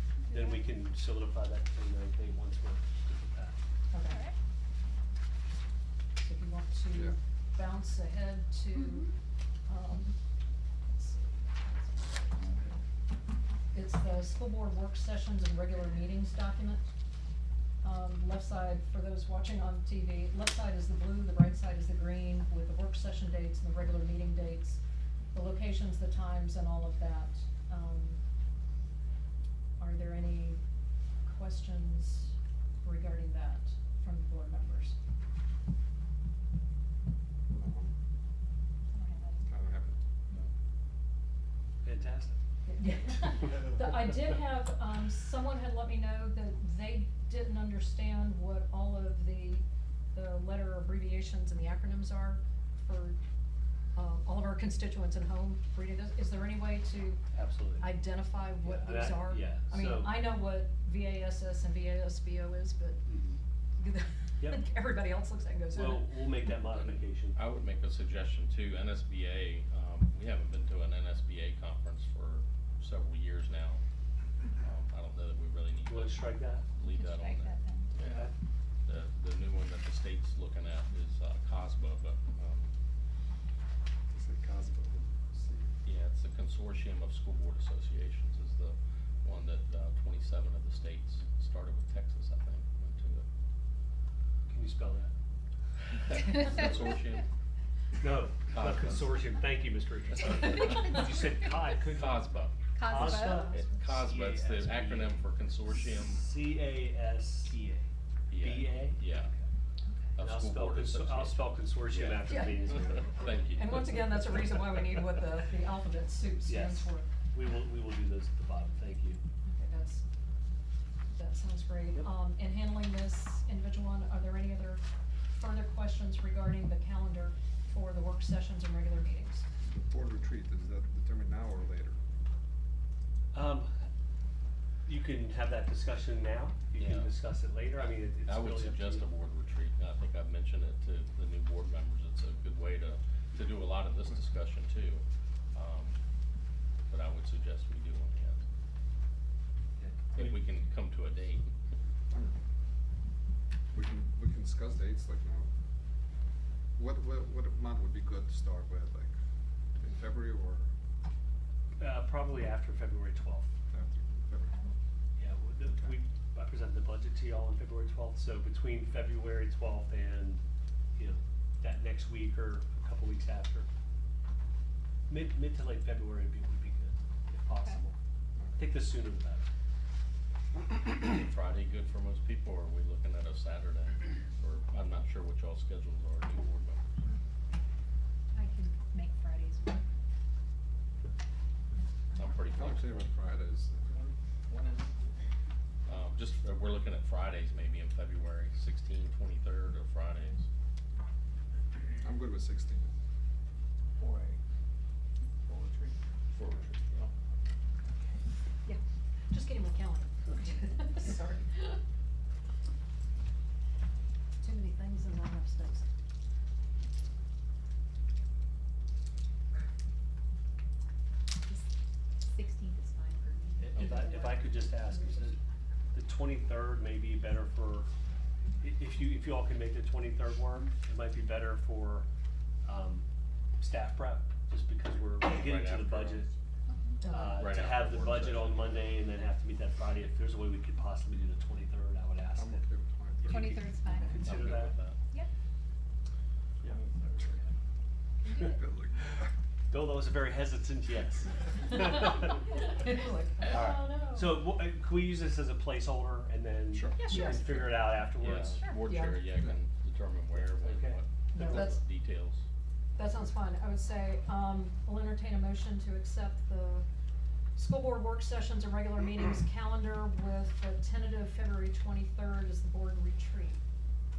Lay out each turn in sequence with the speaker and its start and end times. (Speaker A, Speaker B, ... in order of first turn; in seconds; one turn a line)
Speaker A: 0.2-0.6
Speaker B: 0.3-3.6
Speaker C: 3.9-4.2
Speaker A: 4.0-4.3
Speaker C: 6.2-9.1
Speaker C: 9.7-10.2
Speaker C: 10.8-12.8
Speaker C: 13.7-16.9
Speaker C: 17.8-24.8
Speaker C: 25.3-28.2
Speaker C: 29.8-30.6
Speaker C: 31.2-35.0
Speaker D: 37.5-37.9
Speaker A: 38.9-39.5
Speaker D: 39.5-40.0
Speaker B: 41.8-42.4
Speaker C: 42.6-53.2
Speaker C: 53.9-57.2
Speaker B: 57.3-58.0
Speaker C: 57.8-63.0
Speaker B: 58.6-60.2
Speaker B: 63.0-63.4
Speaker C: 63.8-66.2
Speaker B: 64.4-64.6
Speaker B: 65.7-67.4
Speaker E: 66.7-73.8
Speaker E: 74.6-77.6
Speaker B: 75.9-76.7
Speaker A: 76.8-77.9
Speaker E: 78.8-82.7
Speaker D: 84.1-85.7
Speaker E: 85.8-93.2
Speaker B: 94.5-95.1
Speaker E: 96.0-97.3
Speaker B: 98.0-102.2
Speaker E: 98.5-99.3
Speaker E: 100.2-100.8
Speaker A: 100.5-101.7
Speaker E: 101.8-106.3
Speaker A: 102.7-103.7
Speaker B: 102.8-105.2
Speaker B: 106.0-109.5
Speaker E: 108.3-109.3
Speaker E: 110.2-113.9
Speaker B: 110.2-113.2
Speaker C: 112.2-117.1
Speaker B: 116.4-119.2
Speaker C: 119.5-120.0
Speaker C: 121.1-129.4
Speaker D: 129.6-132.0
Speaker B: 133.3-133.7
Speaker B: 134.8-139.1
Speaker E: 136.8-137.1
Speaker E: 137.7-146.0
Speaker E: 146.9-148.4
Speaker B: 149.8-150.4
Speaker E: 150.1-151.5
Speaker D: 152.1-152.4
Speaker D: 153.7-155.5
Speaker D: 156.8-159.1
Speaker D: 159.8-160.7
Speaker B: 161.8-163.5
Speaker D: 163.7-164.7
Speaker B: 165.2-170.4
Speaker B: 170.9-173.7
Speaker B: 175.1-177.9
Speaker A: 177.5-177.8
Speaker D: 178.4-178.7
Speaker B: 178.6-179.5
Speaker E: 180.9-186.9
Speaker A: 188.3-189.8
Speaker E: 192.1-193.1
Speaker D: 192.5-194.0
Speaker F: 194.5-194.9
Speaker E: 195.8-200.5
Speaker D: 202.0-202.9
Speaker F: 204.0-204.4
Speaker F: 205.5-205.9
Speaker E: 206.3-207.1
Speaker C: 209.3-211.8
Speaker C: 214.4-215.8
Speaker A: 222.2-225.3
Speaker B: 223.6-225.4
Speaker B: 225.9-227.9
Speaker B: 228.6-232.1
Speaker B: 232.6-233.1
Speaker B: 233.6-236.3
Speaker E: 235.2-236.2
Speaker A: 236.7-237.0
Speaker C: 237.0-237.5
Speaker B: 237.0-242.6
Speaker E: 237.3-238.9
Speaker D: 242.3-243.6
Speaker A: 243.2-244.3
Speaker B: 243.3-244.8
Speaker E: 244.2-245.0
Speaker F: 246.7-247.0
Speaker A: 248.2-248.6
Speaker D: 248.3-249.3
Speaker B: 249.7-252.3
Speaker C: 251.6-254.4
Speaker F: 253.5-253.8
Speaker B: 253.5-258.6
Speaker D: 256.7-257.0
Speaker A: 256.9-257.3
Speaker C: 257.0-257.6
Speaker E: 258.2-262.4
Speaker A: 258.4-258.8
Speaker C: 258.8-259.2
Speaker B: 260.3-261.0
Speaker C: 261.3-261.8
Speaker C: 262.9-266.9
Speaker C: 267.5-273.6